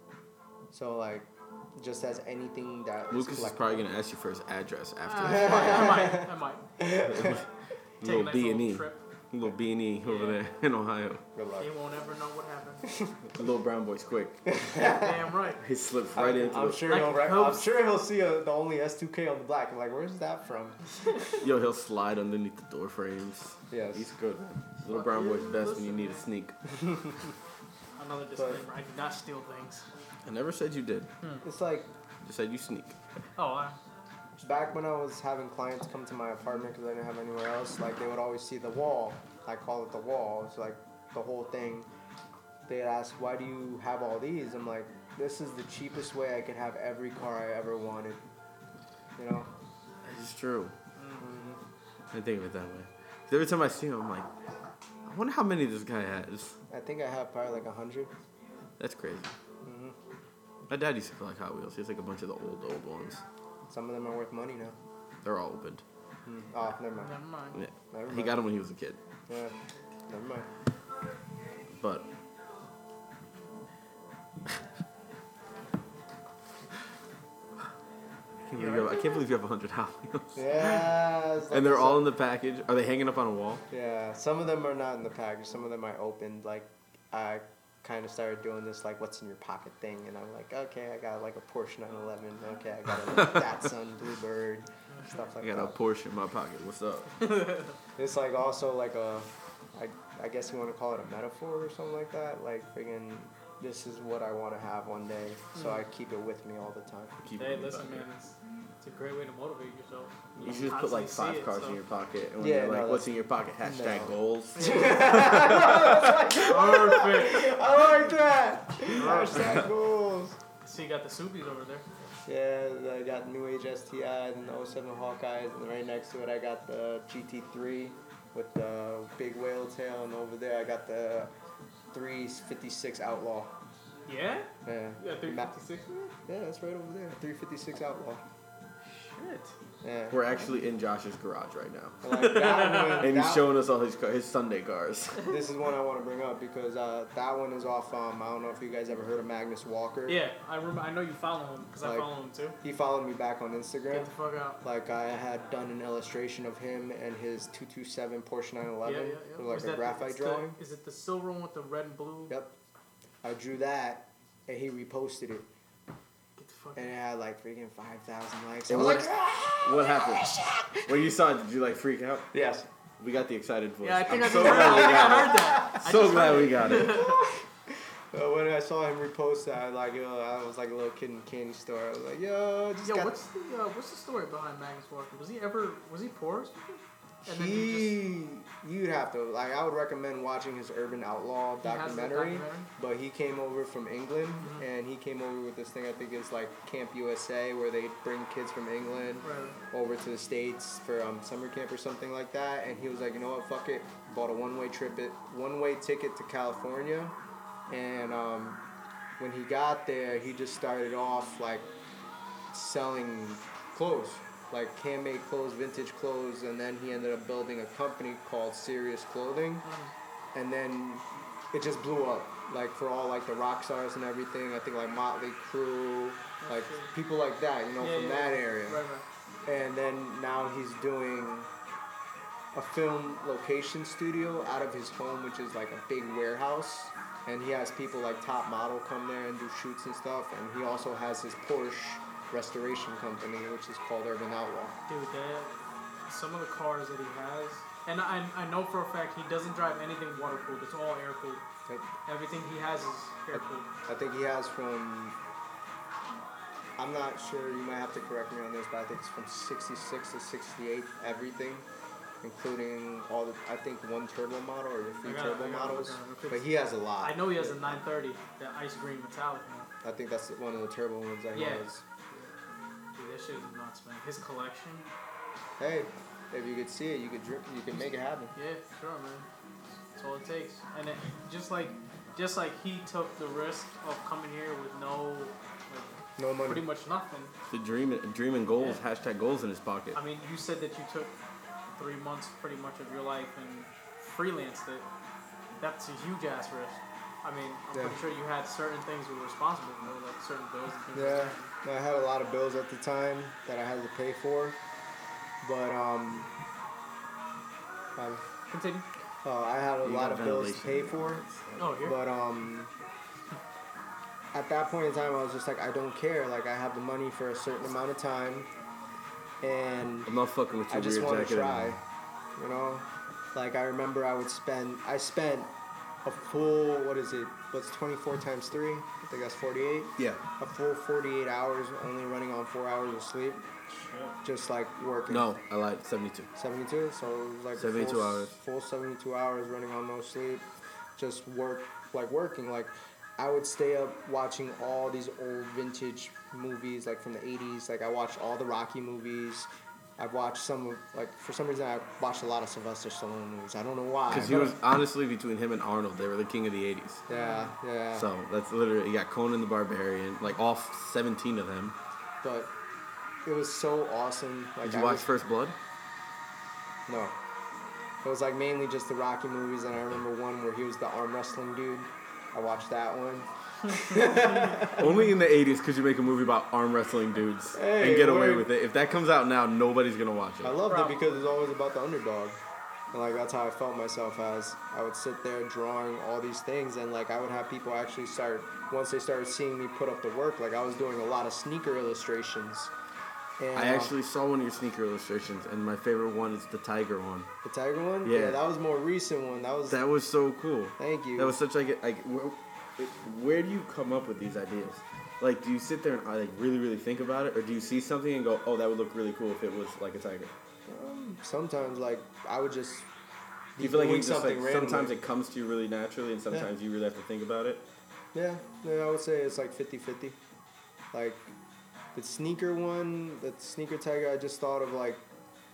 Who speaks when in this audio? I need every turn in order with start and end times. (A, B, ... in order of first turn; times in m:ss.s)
0:00.7-0:03.8 A
0:03.1-0:06.1 B
0:05.1-0:06.7 C
0:05.3-0:06.3 A
0:06.8-0:07.4 A
0:07.1-0:07.4 B
0:08.0-0:09.0 C
0:08.0-0:11.2 B
0:10.0-0:10.4 C
0:11.4-0:11.7 A
0:11.6-0:12.9 C
0:13.3-0:14.4 B
0:14.5-0:15.2 A
0:14.8-0:15.6 C
0:15.6-0:17.0 B
0:16.1-0:20.8 A
0:16.9-0:17.7 C
0:21.4-0:26.6 B
0:23.7-0:24.1 A
0:24.9-0:26.2 C
0:26.7-0:27.2 A
0:28.0-0:29.9 C
0:28.4-0:28.6 A
0:30.2-0:31.1 B
0:31.4-0:31.9 A
0:32.2-0:33.0 B
0:33.4-0:33.8 C
0:34.4-0:41.9 A
0:42.7-0:48.2 A
0:49.2-0:49.5 A
0:50.0-0:50.7 B
0:51.2-0:51.6 A
0:52.1-0:54.3 B
0:55.1-0:56.6 B
0:56.7-0:58.1 A
0:58.8-0:59.3 B
0:59.6-1:00.0 A
1:00.7-1:03.2 B
1:03.7-1:04.8 A
1:05.2-1:05.8 B
1:06.3-1:07.2 A
1:07.0-1:07.6 C
1:07.6-1:09.0 B
1:07.9-1:08.4 A
1:09.3-1:09.5 A
1:10.1-1:10.5 A
1:11.8-1:12.1 B
1:18.5-1:20.9 B
1:18.6-1:19.2 C
1:20.4-1:22.0 A
1:21.5-1:23.6 B
1:23.7-1:35.8 A
1:35.4-1:37.2 B
1:37.2-1:37.8 C
1:38.0-1:47.2 A
1:47.2-1:48.0 B
1:47.4-1:51.8 C
1:50.4-1:54.6 B
1:52.4-1:53.1 A
1:53.6-2:00.4 A
1:54.6-1:55.7 C
1:55.1-1:56.0 B
1:56.3-1:57.6 C
1:58.9-1:59.5 C
2:00.6-2:01.8 C
2:02.3-2:11.3 A
2:11.9-2:13.5 A
2:14.1-2:16.1 C
2:14.6-2:15.5 A
2:16.3-2:18.2 A
2:18.9-2:19.5 C
2:19.8-2:20.2 A
2:20.1-2:22.2 B
2:22.0-2:23.5 A
2:22.2-2:23.1 C
2:23.0-2:25.2 B
2:25.3-2:30.2 A
2:30.1-2:32.6 C
2:31.8-2:34.1 A
2:33.9-2:34.6 C
2:34.6-2:40.6 A
2:38.8-2:42.4 C
2:42.3-2:42.5 A
2:43.2-2:45.5 A
2:46.4-2:46.9 C
2:46.8-2:50.9 A
2:48.7-2:52.3 B
2:52.3-2:52.7 A
2:53.0-2:57.1 B
2:53.8-2:57.2 C
2:54.3-2:55.8 A
2:56.8-2:57.4 A
2:58.1-3:03.2 A
3:02.8-3:08.0 C
3:07.2-3:27.1 A
3:11.6-3:12.7 C
3:19.2-3:19.6 C
3:27.7-3:28.6 A
3:29.2-3:31.7 A
3:32.5-3:39.7 A
3:39.6-3:39.9 C
3:40.3-3:48.8 A
3:46.4-3:46.9 C
3:47.8-3:49.0 C
3:49.5-3:51.5 A
3:52.5-4:04.8 A
4:04.9-4:05.6 C
4:06.1-4:11.4 C
4:12.1-4:13.7 C
4:13.3-4:15.2 A
4:16.8-4:21.7 A
4:22.2-4:27.8 A
4:25.0-4:29.7 C
4:29.8-4:31.8 A
4:31.4-4:32.3 C
4:33.0-4:34.9 C
4:35.6-4:38.3 A
4:38.4-4:39.3 C
4:39.9-4:47.3 C
4:46.2-4:46.6 A
4:47.5-4:50.0 B
4:49.9-4:51.2 C
4:51.8-4:54.9 C
4:55.6-5:01.5 C
4:57.7-4:58.0 A
5:00.9-5:04.6 A
5:05.4-5:06.3 A
5:08.0-5:08.2 A
5:08.5-5:08.9 C
5:09.2-5:11.2 A
5:09.8-5:11.8 B
5:11.6-5:12.0 C
5:11.8-5:12.7 A
5:14.3-5:18.5 A
5:19.4-5:20.2 A
5:20.1-5:21.8 B
5:20.7-5:21.8 A
5:22.4-5:25.5 A
5:26.0-5:33.4 A
5:33.7-5:34.2 C
5:34.2-5:35.3 A
5:35.1-5:36.3 B
5:36.4-5:40.4 A
5:37.6-5:38.3 B
5:41.0-5:54.6 A
5:54.1-5:57.0 B
5:57.1-5:58.1 A
5:57.1-5:57.5 C
5:57.9-6:01.8 B
6:02.2-6:02.5 A
6:03.2-6:05.1 A
6:04.6-6:05.6 B
6:06.9-6:07.2 A
6:08.0-6:14.9 A
6:14.8-6:20.6 B
6:17.5-6:18.5 A
6:20.4-6:22.4 A
6:20.7-6:21.1 C
6:22.9-6:32.7 A
6:33.4-6:33.9 A
6:33.5-6:37.3 B
6:37.4-6:39.8 A
6:38.0-6:38.4 B
6:39.7-6:50.3 B
6:40.8-6:41.4 A
6:50.7-6:52.9 A
6:53.6-6:55.0 A
6:53.6-6:57.6 B
6:58.1-7:00.2 A
7:00.9-7:01.3 A
7:02.0-7:05.0 A